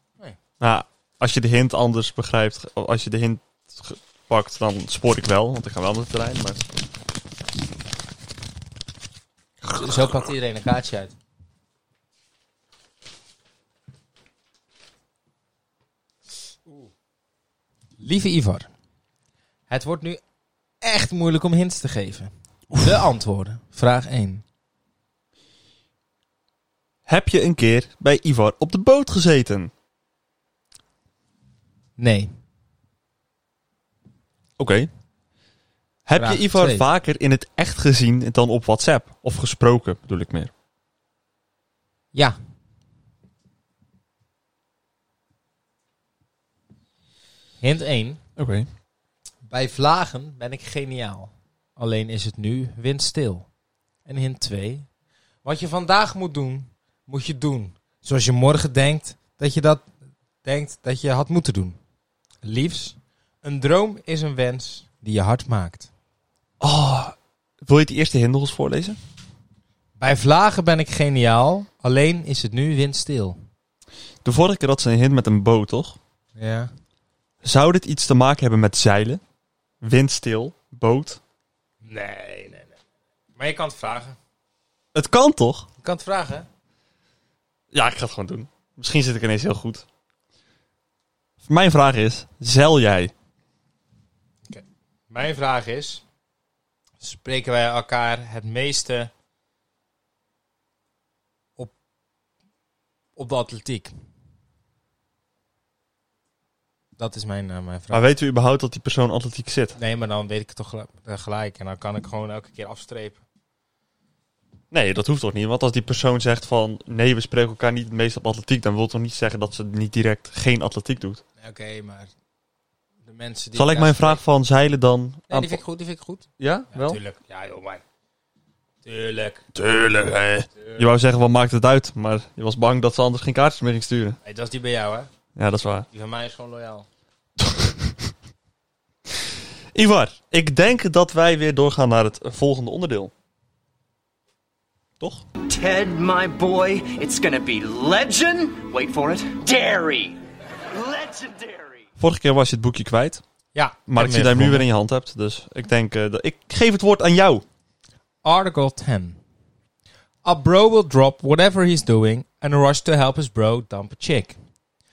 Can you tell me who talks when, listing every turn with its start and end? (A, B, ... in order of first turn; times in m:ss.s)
0:00.6-0:06.7 A
0:09.6-0:10.1 A
0:09.7-0:11.1 B
0:18.0-0:18.7 B
0:19.7-0:20.2 B
0:20.8-0:24.4 B
0:27.0-0:29.7 A
0:32.0-0:32.3 B
0:34.6-0:34.9 A
0:36.0-0:40.5 A
0:36.1-0:36.8 B
0:47.6-0:48.2 B
0:48.4-0:48.7 A
0:49.5-0:53.5 B
0:54.0-0:54.9 B
0:55.4-0:59.9 B
1:00.4-1:01.8 B
1:02.4-1:05.9 B
1:06.6-1:09.0 A
1:10.0-1:13.4 B
1:14.2-1:16.0 A
1:16.4-1:16.7 B
1:17.4-1:19.2 A
1:19.8-1:21.2 A
1:21.8-1:22.8 B
1:23.4-1:24.2 B
1:24.9-1:25.7 A
1:25.8-1:26.4 B
1:27.7-1:29.8 A
1:31.4-1:33.1 A
1:34.5-1:36.0 B
1:37.0-1:39.1 B
1:43.2-1:43.9 B
1:47.0-1:48.0 B
1:47.9-1:49.8 A
1:49.8-1:53.2 B
1:54.7-2:01.2 A
2:01.4-2:02.1 B
2:03.0-2:04.2 B
2:03.6-2:05.6 A
2:05.3-2:07.8 B
2:06.4-2:07.0 A
2:08.8-2:09.4 B
2:09.5-2:14.2 A
2:14.2-2:15.1 B
2:15.4-2:15.9 A
2:15.9-2:16.9 B
2:17.4-2:18.1 A
2:19.7-2:23.1 A
2:25.4-2:30.2 C
2:30.7-2:31.8 C
2:32.0-2:33.2 A
2:33.5-2:34.6 B
2:33.9-2:37.4 A
2:38.2-2:39.2 B
2:40.2-2:44.4 B